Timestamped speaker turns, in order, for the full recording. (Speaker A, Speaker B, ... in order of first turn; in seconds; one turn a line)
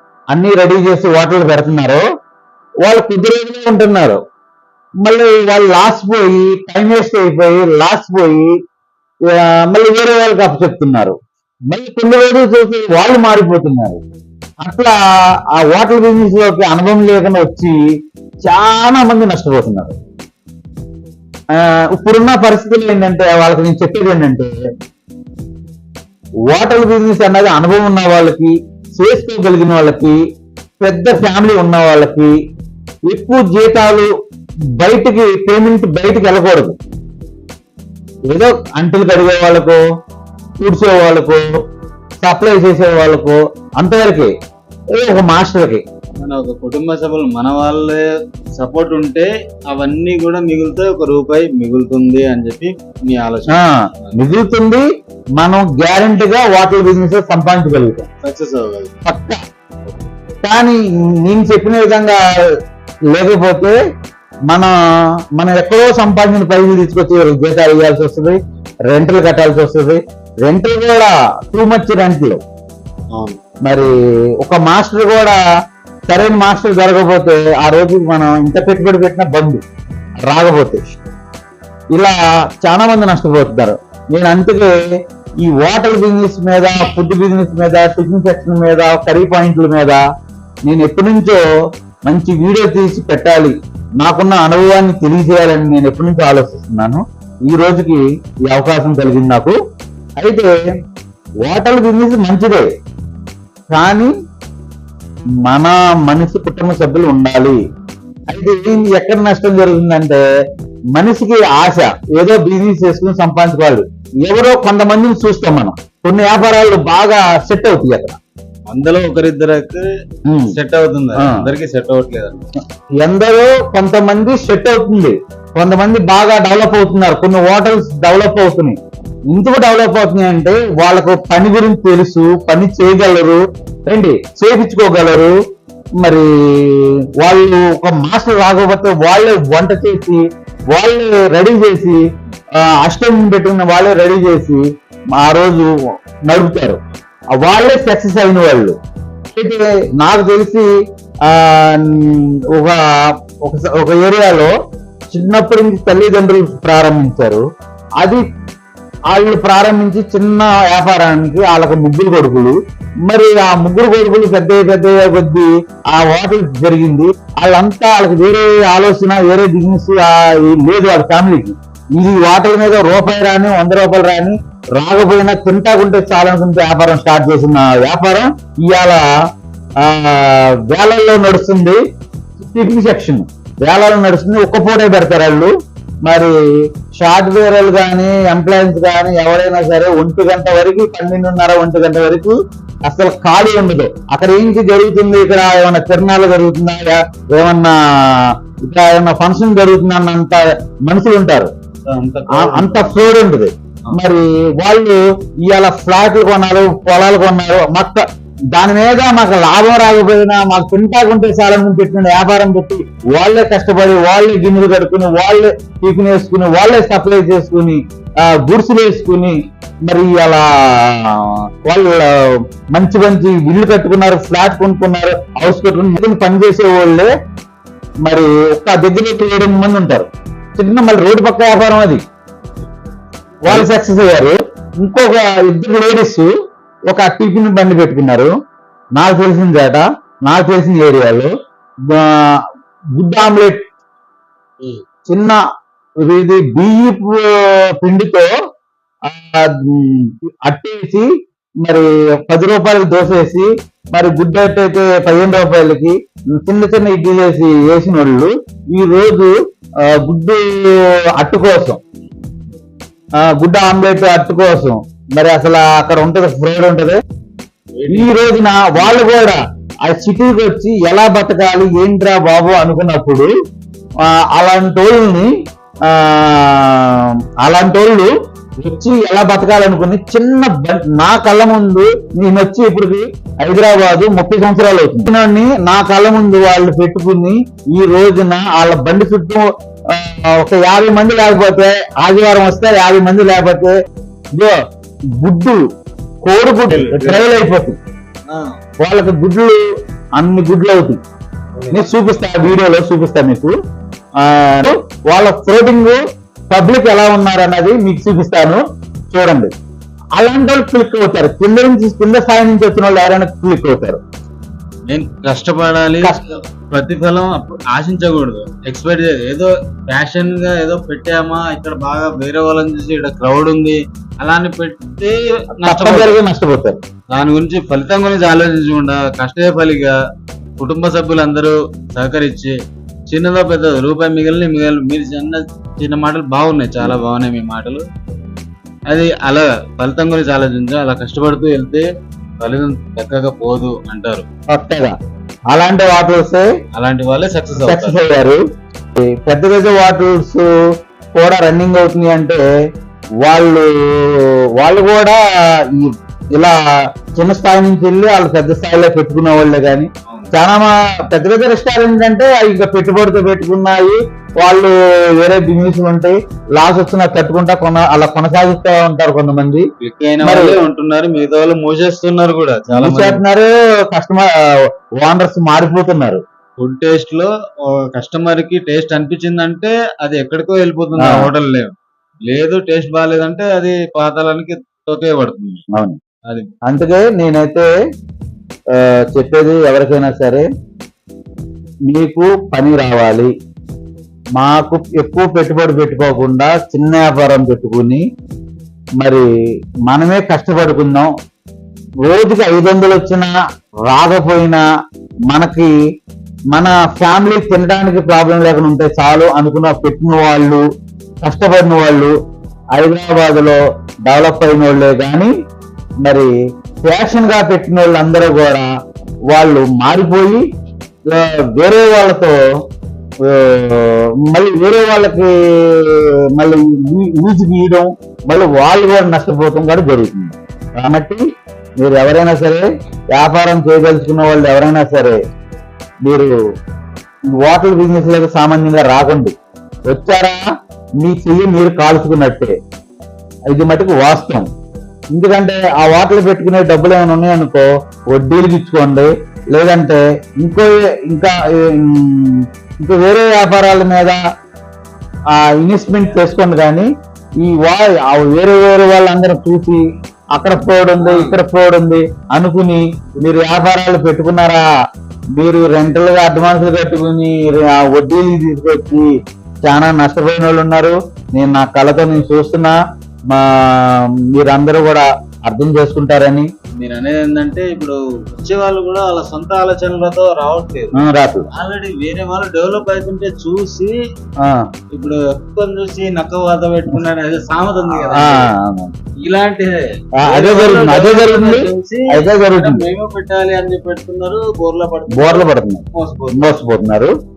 Speaker A: 0.3-2.0
Speaker A: 2.8-4.2
Speaker A: 5.0-8.5
Speaker A: 9.3-11.2
Speaker A: 11.7-14.0
Speaker A: 14.6-15.0
Speaker A: 15.5-17.8
Speaker A: 18.5-19.9
Speaker A: 21.5-24.5
Speaker A: 26.5-30.2
Speaker A: 30.8-32.3
Speaker A: 33.1-34.1
Speaker A: 34.8-36.8
Speaker A: 38.3-39.8
Speaker A: 40.6-41.5
Speaker A: 42.2-44.3
Speaker A: 45.0-45.8
Speaker B: 46.2-48.0
Speaker B: 48.6-54.1
Speaker A: 53.5-54.9
Speaker A: 55.4-58.1
Speaker B: 58.2-58.9
Speaker A: 59.0-59.4
Speaker A: 60.4-62.2
Speaker A: 63.1-63.8
Speaker A: 65.4-68.4
Speaker A: 68.9-72.4
Speaker A: 73.7-75.4
Speaker A: 76.1-79.6
Speaker A: 80.2-80.8
Speaker A: 81.9-84.7
Speaker A: 85.4-90.0
Speaker A: 90.7-91.4
Speaker A: 92.1-99.6
Speaker A: 100.2-100.5
Speaker A: 101.4-102.7
Speaker A: 103.7-104.1
Speaker A: 105.5-107.6
Speaker A: 108.3-110.2
Speaker A: 110.9-118.2
Speaker B: 118.7-119.8
Speaker A: 120.3-120.5
Speaker B: 120.5-122.5
Speaker A: 123.0-128.8
Speaker A: 129.3-135.3
Speaker A: 136.0-140.2
Speaker A: 140.7-142.0
Speaker A: 142.6-144.6
Speaker A: 145.2-145.7
Speaker A: 146.3-146.8
Speaker A: 147.3-148.8
Speaker A: 149.3-150.7
Speaker A: 151.3-152.8
Speaker A: 153.4-154.5
Speaker A: 155.1-157.4
Speaker A: 159.1-162.6
Speaker A: 163.1-179.0
Speaker A: 179.8-181.8
Speaker A: 182.4-185.5
Speaker A: 186.1-186.3
Speaker A: 187.0-201.5
Speaker B: 201.9-203.2
Speaker A: 202.4-208.0
Speaker A: 208.5-219.4
Speaker A: 219.9-227.1
Speaker A: 228.1-232.0
Speaker A: 233.5-236.3
Speaker A: 236.9-238.3
Speaker A: 239.0-241.3
Speaker A: 241.9-242.4
Speaker A: 243.0-243.7
Speaker A: 245.1-245.4
Speaker A: 246.1-248.3
Speaker A: 249.1-251.1
Speaker A: 251.6-259.3
Speaker A: 259.8-260.5
Speaker A: 261.2-261.8
Speaker A: 263.2-267.0
Speaker B: 267.8-268.2
Speaker A: 267.9-273.3
Speaker A: 274.0-275.3
Speaker A: 275.9-293.7
Speaker A: 295.1-295.6
Speaker A: 296.2-297.8
Speaker B: 296.7-297.3
Speaker B: 298.3-298.6
Speaker A: 298.8-299.6
Speaker A: 300.2-301.0
Speaker B: 301.6-301.9
Speaker A: 301.7-303.6
Speaker A: 304.2-309.5
Speaker A: 310.2-314.0
Speaker B: 314.9-316.2
Speaker B: 316.7-326.2
Speaker A: 325.6-326.8
Speaker B: 327.1-330.0
Speaker B: 330.6-332.6
Speaker B: 333.1-337.8
Speaker B: 338.9-341.9
Speaker B: 342.4-344.2
Speaker A: 344.5-344.9
Speaker A: 345.5-346.5
Speaker B: 346.8-348.0
Speaker A: 347.6-348.4
Speaker A: 349.0-350.5
Speaker A: 351.2-352.4
Speaker A: 353.2-356.6
Speaker A: 357.2-369.6
Speaker B: 369.8-373.2
Speaker A: 370.2-370.6
Speaker A: 372.7-374.3
Speaker A: 375.0-376.2
Speaker B: 376.6-381.7
Speaker A: 381.0-381.3
Speaker B: 382.3-385.6
Speaker A: 385.7-386.0
Speaker A: 386.7-387.7
Speaker A: 388.7-390.4
Speaker A: 391.9-393.3
Speaker A: 394.4-398.0
Speaker A: 399.9-401.1
Speaker A: 402.1-403.4
Speaker A: 403.9-404.6
Speaker A: 405.3-405.7
Speaker A: 406.5-410.6
Speaker A: 411.2-412.1
Speaker A: 412.8-415.3
Speaker A: 416.0-416.3
Speaker A: 416.9-418.7
Speaker A: 419.3-420.4
Speaker A: 421.1-422.4
Speaker A: 423.2-431.2
Speaker A: 431.8-435.2
Speaker A: 436.1-436.3
Speaker A: 437.4-439.4
Speaker A: 439.9-440.4
Speaker A: 441.0-442.6
Speaker A: 443.5-444.5
Speaker A: 445.1-454.2
Speaker A: 455.3-456.9
Speaker A: 457.4-459.8
Speaker A: 460.4-464.6
Speaker B: 461.0-461.4
Speaker A: 465.4-469.1
Speaker A: 469.6-472.8
Speaker A: 473.3-476.5
Speaker B: 476.8-481.0
Speaker A: 481.0-481.5
Speaker B: 481.5-484.0
Speaker B: 484.9-488.5
Speaker A: 488.1-488.9
Speaker B: 489.2-496.6
Speaker A: 490.2-492.9
Speaker A: 495.1-495.8
Speaker A: 496.4-497.1